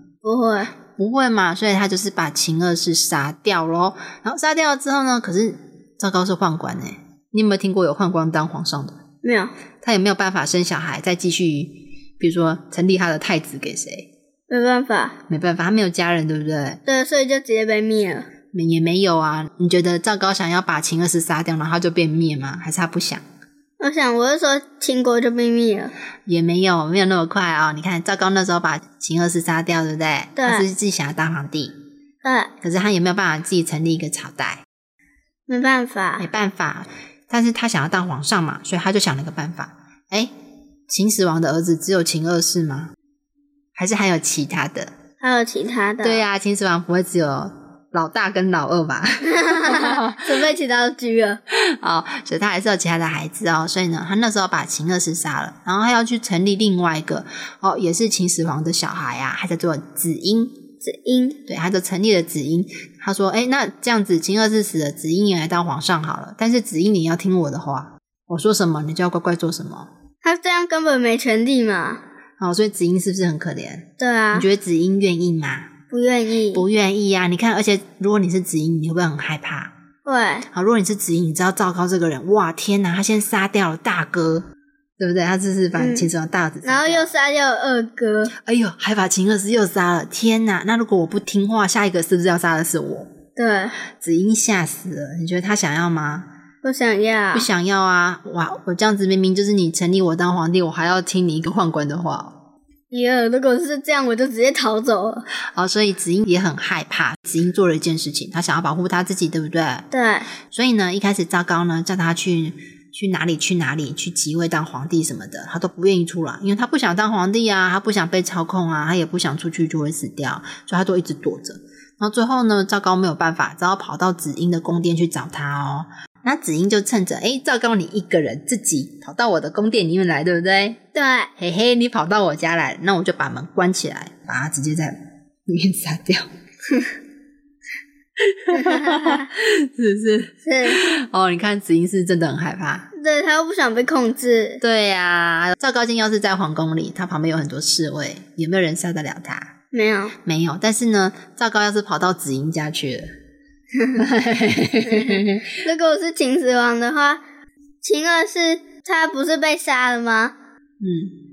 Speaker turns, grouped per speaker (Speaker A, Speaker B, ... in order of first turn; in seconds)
Speaker A: 0.2-0.7, 9.2-9.5, 14.5-15.2, 16.9-18.3, 23.8-25.9, 30.4-30.6, 32.2-32.5, 35.5-36.2, 45.2-46.2, 49.2-51.4, 60.8-61.4, 70.2-72.0, 74.0-74.5, 75.9-76.6, 80.0-80.5, 85.8-86.1, 86.6-88.3, 93.4-93.8, 96.6-97.5, 102.9-105.2, 109.9-110.3, 130.9-131.3, 138.5-139.3, 140.4-140.9, 142.9-144.6, 149.7-150.1, 154.8-157.2, 157.8-160.3
Speaker B: 1.0-9.0, 9.8-14.1, 15.3-16.8, 18.5-23.2, 26.2-31.7, 32.6-34.6, 36.2-40.3, 40.9-42.9, 43.7-44.9, 46.0-50.5, 51.5-60.6, 61.5-69.9, 72.4-75.7, 76.5-79.7, 80.5-84.5, 85.0-87.1, 88.4-93.1, 93.9-96.3, 97.3-102.4, 105.5-109.8, 110.5-130.8, 131.4-136.3, 138.2-142.9, 144.6-149.5, 150.2-153.1, 153.9-155.6, 160.8-161.2